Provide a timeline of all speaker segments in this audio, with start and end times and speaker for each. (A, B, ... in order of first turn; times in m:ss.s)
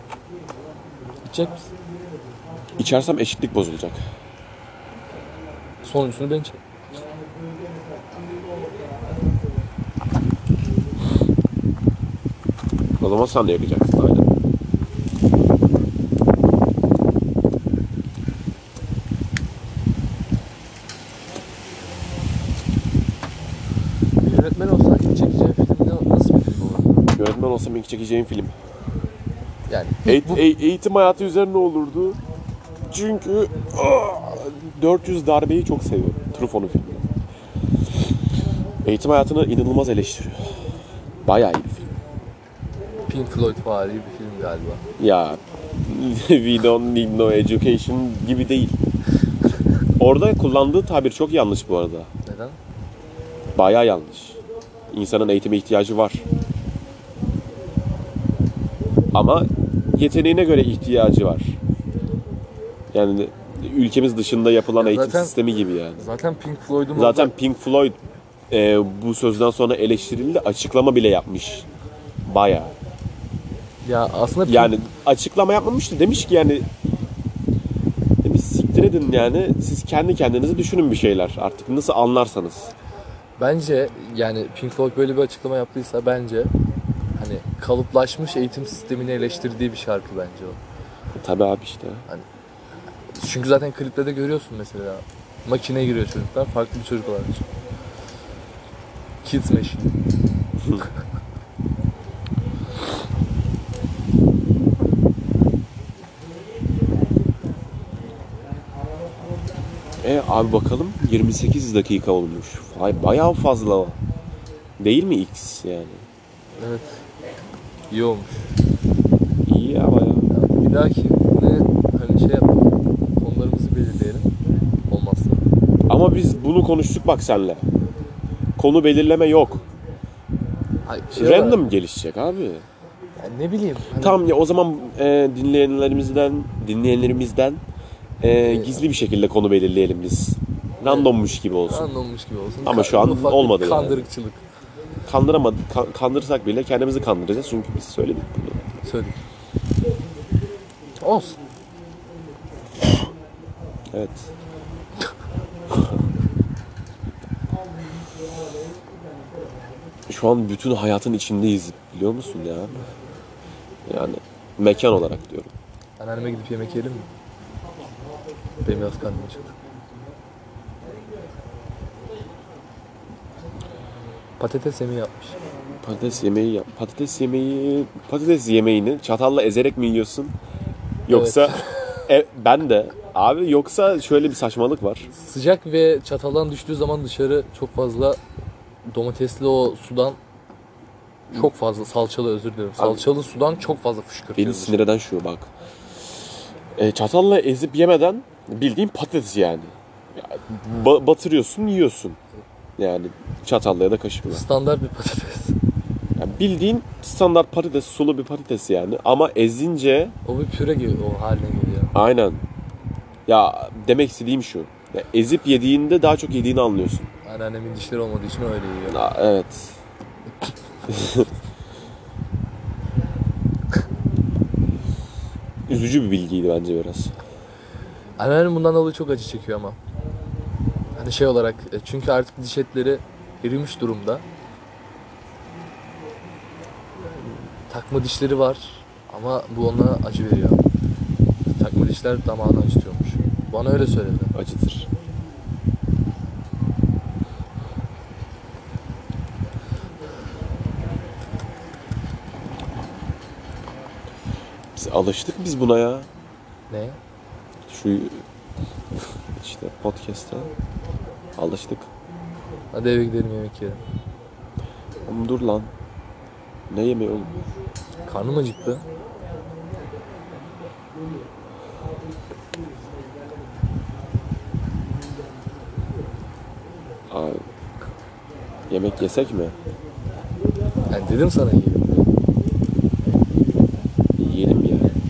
0:01.3-0:01.7 A
0:02.8-0:04.0 B
0:05.8-0:06.6 A
0:13.0-0:14.3 B
0:24.2-0:27.0 A
0:27.1-0:28.6 B
0:29.7-0:30.4 A
0:30.0-0:32.2 B
0:32.9-0:37.1 B
0:38.8-0:40.6 B
0:41.2-0:41.9 B
0:43.1-0:44.8 A
0:45.0-0:48.8 B
0:50.0-0:52.1 B
0:52.2-0:52.6 A
0:53.5-0:54.4 B
0:54.9-0:56.2 B
0:59.1-1:01.6 B
1:02.9-1:06.0 B
1:04.8-1:05.3 A
1:06.0-1:07.3 A
1:06.9-1:08.0 B
1:08.5-1:11.7 B
1:12.2-1:12.7 B
1:13.8-1:14.7 A
1:14.4-1:16.7 B
1:18.2-1:22.7 B
1:23.4-1:26.5 A
1:27.2-1:30.6 A
1:31.1-1:32.0 B
1:33.1-1:37.4 A
1:39.2-1:40.0 A
1:50.0-1:54.0 B
1:54.8-1:56.0 B
1:56.6-1:57.0 A
1:57.9-1:58.5 A
1:59.4-2:00.3 B
2:00.3-2:04.3 A
2:04.9-2:05.4 A
2:05.9-2:07.6 B
2:08.6-2:09.6 B
2:10.8-2:11.6 A
2:11.1-2:12.6 B
2:13.2-2:14.2 A
2:13.9-2:17.6 B
2:18.2-2:21.9 B
2:18.5-2:18.8 A
2:20.8-2:21.1 A
2:21.7-2:24.4 A
2:22.6-2:24.1 B
2:25.0-2:28.7 B
2:28.8-2:29.2 A
2:31.0-2:31.4 A
2:33.9-2:34.3 B
2:40.1-2:42.8 B
2:43.8-2:45.5 B
2:46.0-2:47.1 A
2:48.6-2:49.5 A
2:54.4-2:55.4 A
2:55.8-3:00.3 B
3:01.1-3:05.1 B
3:01.1-3:02.0 A
3:05.1-3:08.2 A
3:08.8-3:10.2 A
3:11.3-3:14.8 A
3:12.8-3:13.0 B
3:14.4-3:15.5 B
3:16.8-3:22.2 B
3:22.8-3:24.4 B
3:24.3-3:25.6 A
3:26.2-3:30.2 B
3:30.2-3:31.9 A
3:31.9-3:32.4 B
3:33.3-3:37.1 B
3:37.2-3:39.0 A
3:38.9-3:39.8 B
3:40.9-3:41.3 B
3:45.7-3:47.2 B
3:48.2-3:49.8 A
3:51.0-3:54.2 A
3:57.1-4:00.6 A
4:01.5-4:04.3 A
4:04.3-4:04.9 B
4:14.7-4:16.1 B
4:16.7-4:17.0 A
4:17.7-4:18.2 B
4:19.3-4:20.5 B
4:21.4-4:21.9 B
4:22.7-4:23.8 A
4:25.0-4:25.7 B
4:26.7-4:27.3 B
4:28.0-4:28.8 A
4:37.1-4:37.4 B
4:38.7-4:39.6 B
4:40.9-4:42.0 A
4:44.2-4:44.9 B